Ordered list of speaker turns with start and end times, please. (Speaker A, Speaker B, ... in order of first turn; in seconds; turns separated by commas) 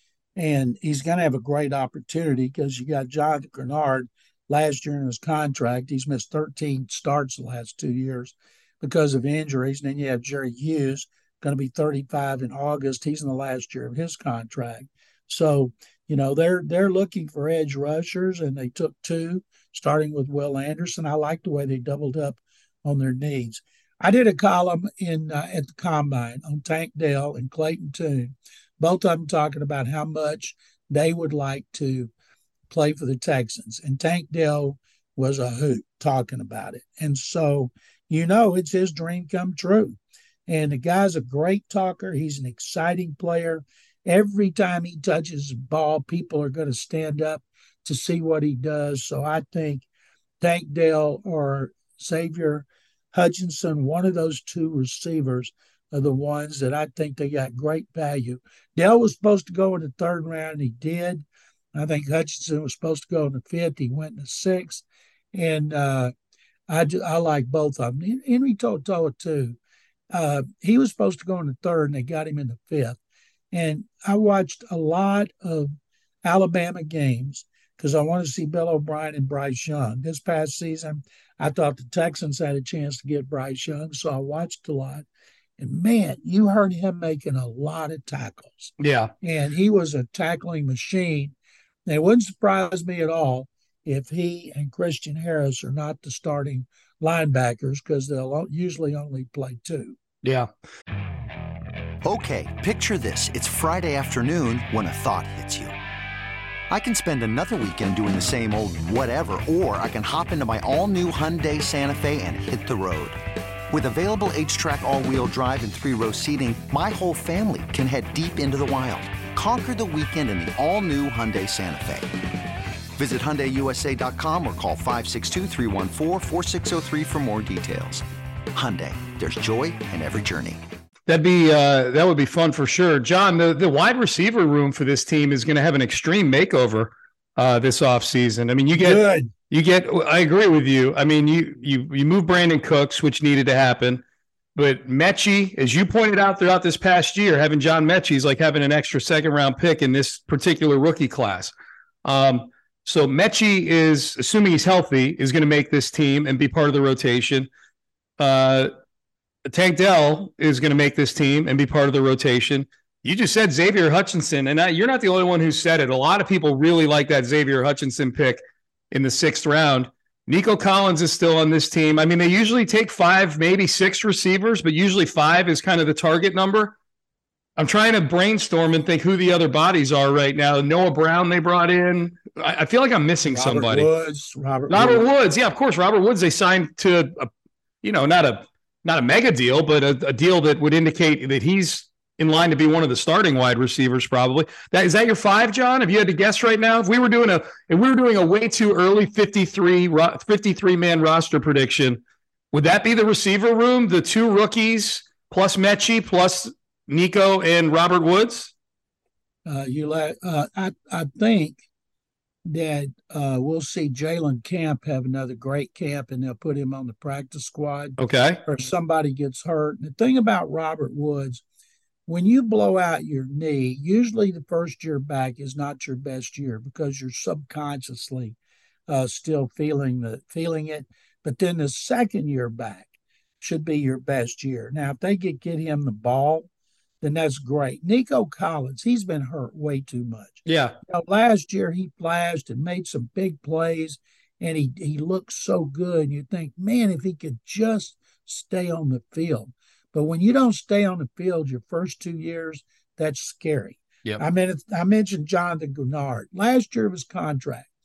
Speaker A: 0.4-32.1, Speaker A: 32.7-49.8, Speaker A: 50.4-66.1, Speaker A: 66.7-69.6, Speaker A: 70.1-73.0, Speaker A: 73.5-85.0, Speaker A: 85.6-91.3, Speaker B: 88.8-89.1, Speaker A: 91.9-100.0, Speaker C: 102.0-105.7, Speaker C: 106.7-113.2, Speaker C: 113.7-122.1, Speaker C: 123.0-130.6, Speaker B: 131.1-144.0, Speaker A: 138.7-139.3, Speaker B: 144.6-151.5, Speaker B: 152.0-157.5, Speaker B: 158.2-158.7, Speaker B: 159.5-176.7, Speaker B: 177.6-183.9, Speaker A: 183.2-185.0, Speaker B: 184.7-187.3, Speaker B: 187.8-202.0, Speaker B: 202.5-208.5, Speaker A: 209.4-211.6, Speaker A: 212.4-221.4, Speaker B: 218.0-218.4, Speaker A: 222.1-228.3, Speaker A: 228.9-232.9, Speaker A: 233.4-236.5, Speaker A: 237.0-257.7, Speaker B: 240.4-240.8